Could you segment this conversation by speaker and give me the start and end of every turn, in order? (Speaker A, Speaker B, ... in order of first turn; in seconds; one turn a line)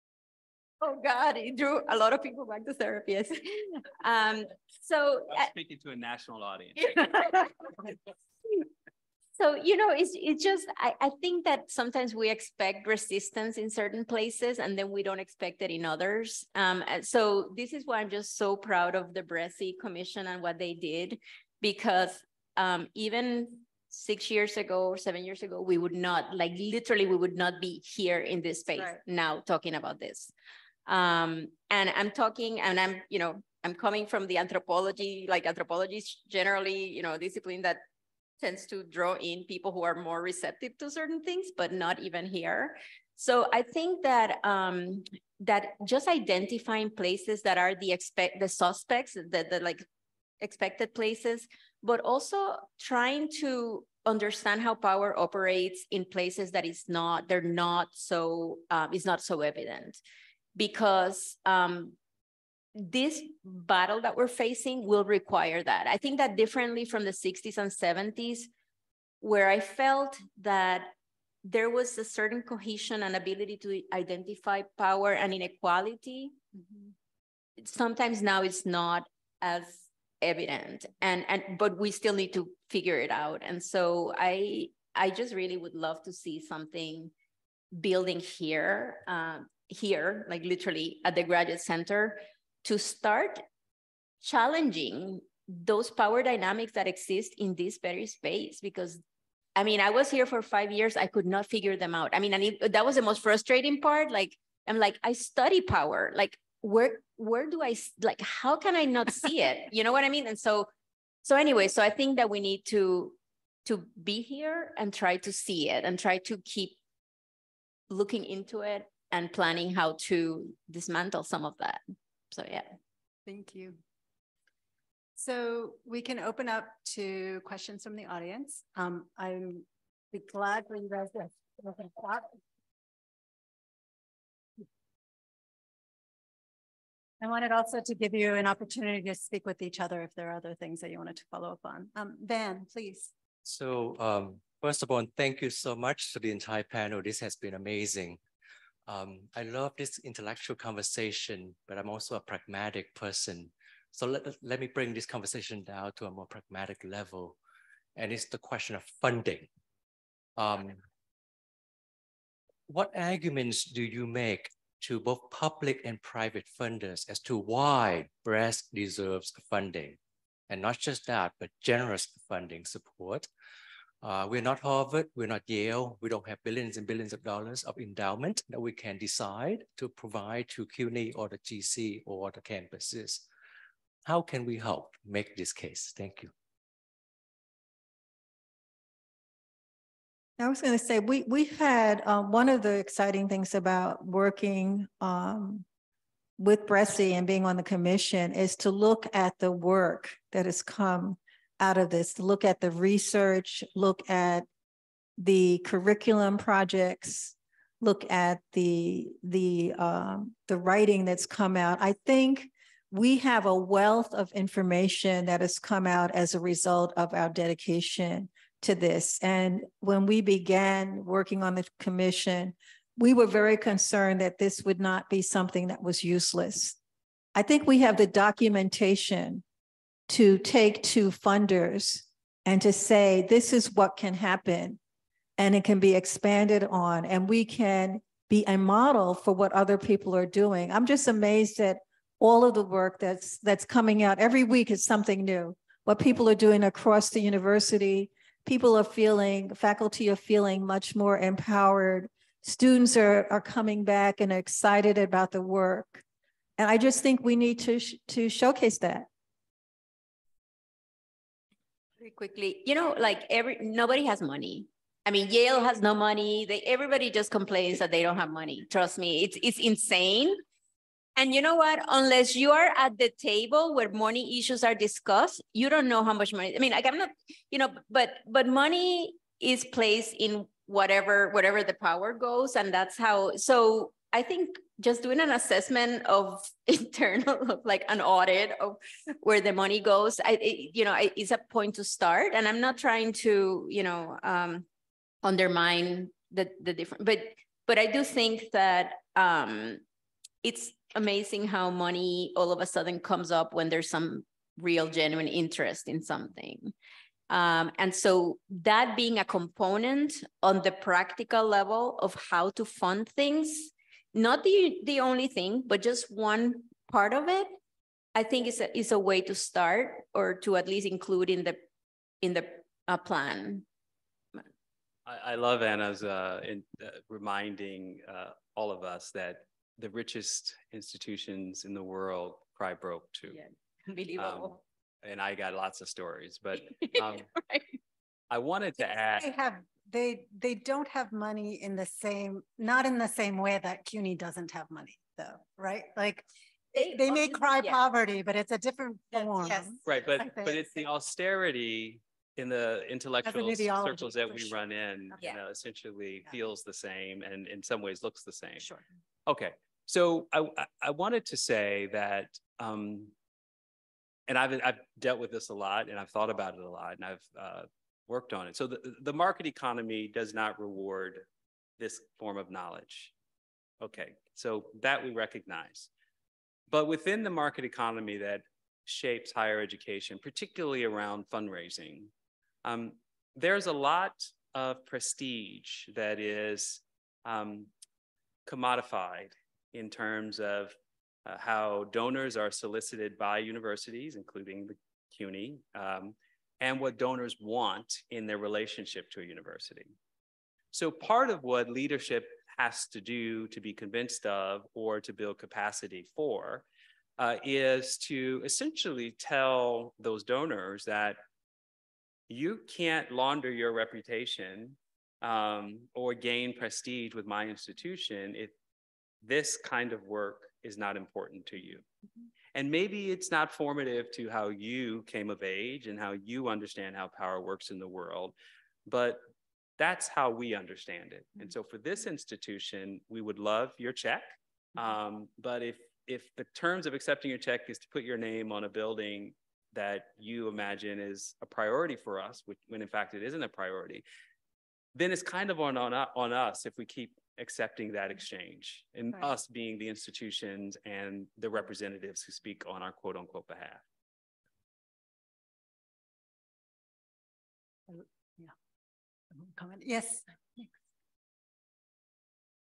Speaker A: 0.8-5.5
Speaker B: 5.3-7.5
Speaker A: 9.4-30.3
Speaker A: 30.9-37.8
Speaker A: 38.4-49.9
Speaker A: 50.4-60.0
Speaker A: 60.6-62.0
Speaker A: 62.8-68.5
Speaker A: 69.2-70.9
Speaker A: 71.4-76.3
Speaker C: 76.6-76.8
Speaker A: 77.6-87.1
Speaker A: 87.7-93.4
Speaker A: 94.2-99.0
Speaker A: 99.6-110.7
Speaker A: 111.2-116.8
Speaker A: 117.9-122.7
Speaker C: 123.3-123.8
Speaker C: 125.2-132.3
Speaker C: 137.2-143.1
Speaker D: 143.4-148.2
Speaker D: 148.9-157.4
Speaker D: 158.0-159.5
Speaker D: 160.4-160.8
Speaker D: 162.7-170.0
Speaker D: 170.5-173.3
Speaker D: 174.0-183.2
Speaker D: 184.1-186.3
Speaker E: 190.4-195.7
Speaker E: 196.4-204.5
Speaker E: 205.2-226.8
Speaker E: 227.3-229.4
Speaker E: 230.1-234.8
Speaker E: 235.4-256.0
Speaker E: 256.6-259.1
Speaker A: 262.0-270.4
Speaker A: 271.2-294.7
Speaker A: 295.2-299.8
Speaker A: 300.4-306.7
Speaker A: 307.3-317.6
Speaker A: 318.1-321.6
Speaker A: 322.2-323.6
Speaker B: 325.1-333.4
Speaker A: 333.3-334.6
Speaker B: 334.2-337.3
Speaker A: 336.7-337.7
Speaker B: 338.3-339.3
Speaker C: 339.2-350.7
Speaker A: 346.8-347.8
Speaker A: 349.1-349.8
Speaker B: 349.9-358.7
Speaker C: 353.2-355.2
Speaker B: 359.3-363.1
Speaker B: 364.3-371.2
Speaker B: 371.8-373.1
Speaker B: 373.8-375.9
Speaker B: 376.7-382.1
Speaker B: 382.6-387.7
Speaker B: 388.5-390.7
Speaker B: 391.3-399.9
Speaker B: 400.7-406.7
Speaker B: 407.2-411.2
Speaker B: 412.3-418.5
Speaker B: 419.2-421.9
Speaker B: 422.5-428.3
Speaker B: 428.9-429.2
Speaker B: 429.8-444.0
Speaker B: 444.9-453.8
Speaker C: 457.9-458.5
Speaker C: 459.4-460.7